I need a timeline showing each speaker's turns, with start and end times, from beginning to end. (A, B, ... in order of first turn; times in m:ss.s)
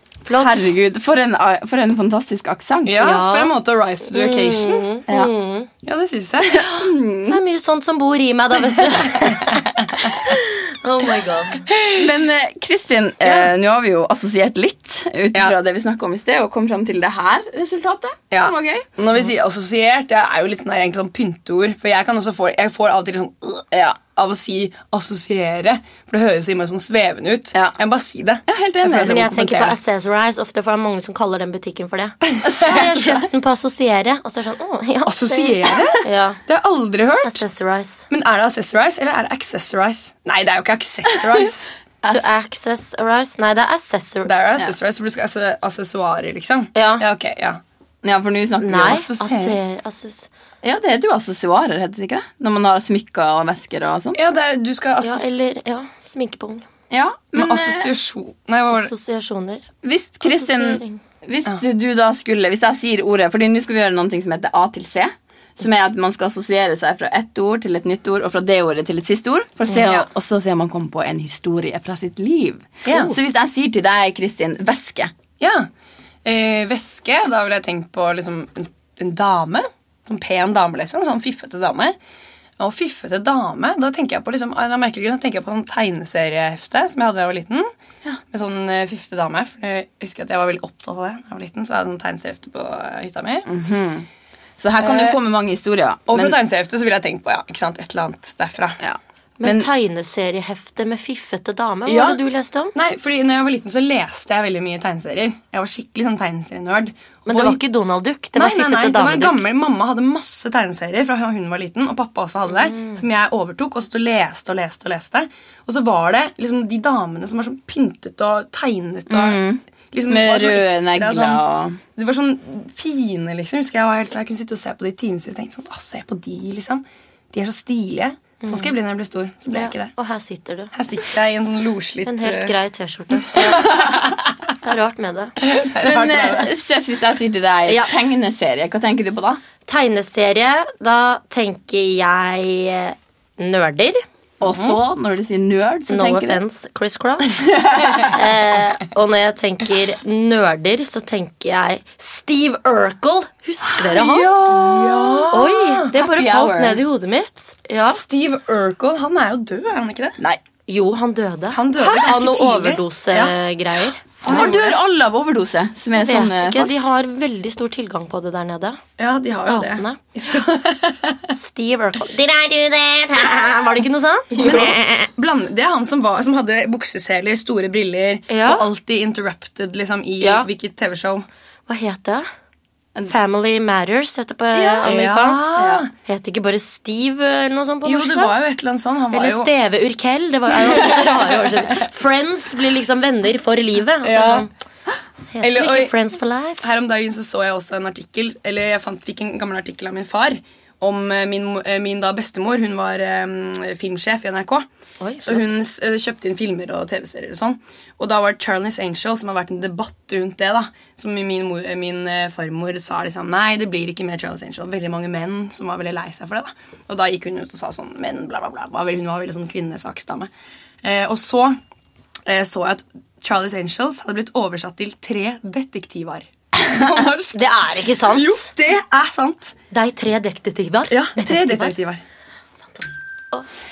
0:00.3-0:03.1 A
0:02.9-0:04.8 B
0:03.0-0:03.5 C
0:04.1-0:05.7 C
0:05.8-0:06.7 B
0:06.5-0:07.4 A
0:07.3-0:11.7 C
0:09.1-0:09.5 B
0:11.7-0:12.0 B
0:11.9-0:18.9 A
0:18.3-0:29.8 B
0:23.7-0:24.0 A
0:28.5-0:29.5 A
0:29.0-0:36.4 C
0:32.4-0:33.2 A
0:35.1-0:37.4 B
0:37.2-0:38.1 C
0:38.1-0:41.7 B
0:42.0-0:42.3 A
0:42.1-0:44.3 C
0:44.2-0:47.6 B
0:46.8-0:47.0 C
0:48.0-0:49.0 A
0:48.6-0:50.3 C
0:48.8-0:49.6 B
0:50.6-0:54.2 A
0:54.2-0:55.4 B
0:55.0-0:56.7 C
0:56.9-0:57.9 A
0:57.4-0:58.9 B
0:58.7-0:59.7 C
0:59.8-1:15.1 A
1:00.2-1:01.0 C
1:09.7-1:10.1 B
1:12.8-1:13.1 B
1:15.4-1:15.7 B
1:16.2-1:22.0 B
1:22.6-1:27.7 B
1:28.3-1:33.5 B
1:33.5-1:34.1 A
1:34.6-1:36.4 A
1:34.8-1:35.2 B
1:36.1-1:38.8 B
1:38.8-1:39.7 A
1:39.4-1:42.7 C
1:41.9-1:42.2 B
1:42.7-1:47.6 B
1:47.3-1:49.4 C
1:48.4-1:59.4 B
1:59.1-2:01.8 A
1:59.9-2:01.4 B
2:02.0-2:09.9 B
2:08.4-2:08.7 C
2:09.5-2:10.7 C
2:10.7-2:12.5 B
2:12.0-2:14.1 C
2:13.3-2:13.8 B
2:14.6-2:15.4 C
2:15.4-2:16.5 B
2:15.8-2:19.4 A
2:19.7-2:24.0 C
2:24.4-2:26.4 A
2:24.4-2:24.8 B
2:25.9-2:27.4 C
2:27.6-2:28.2 A
2:28.0-2:34.3 C
2:33.8-2:35.3 A
2:34.5-2:35.9 B
2:35.3-2:38.0 C
2:35.9-2:36.8 A
2:37.9-2:40.2 B
2:40.7-2:44.1 C
2:41.5-2:43.4 B
2:44.2-2:44.8 B
2:44.2-2:46.7 A
2:46.0-2:48.8 C
2:49.0-2:51.3 B
2:49.3-2:50.0 C
2:51.3-2:55.1 C
2:54.4-3:01.3 B
2:58.3-2:58.7 C
3:00.2-3:00.5 C
3:01.7-3:02.3 C
3:03.0-3:08.4 C
3:04.6-3:05.9 B
3:07.8-3:09.5 B
3:09.1-3:14.5 C
3:14.0-3:14.5 B
3:15.3-3:16.6 C
3:15.4-3:15.9 B
3:16.6-3:24.7 B
3:25.0-3:25.4 C
3:25.2-3:40.3 B
3:40.8-3:41.6 B
3:42.3-3:47.4 B
3:47.3-3:48.5 C
3:48.1-3:49.6 B
3:49.7-3:51.8 C
3:50.9-3:52.0 B
3:52.7-3:53.5 C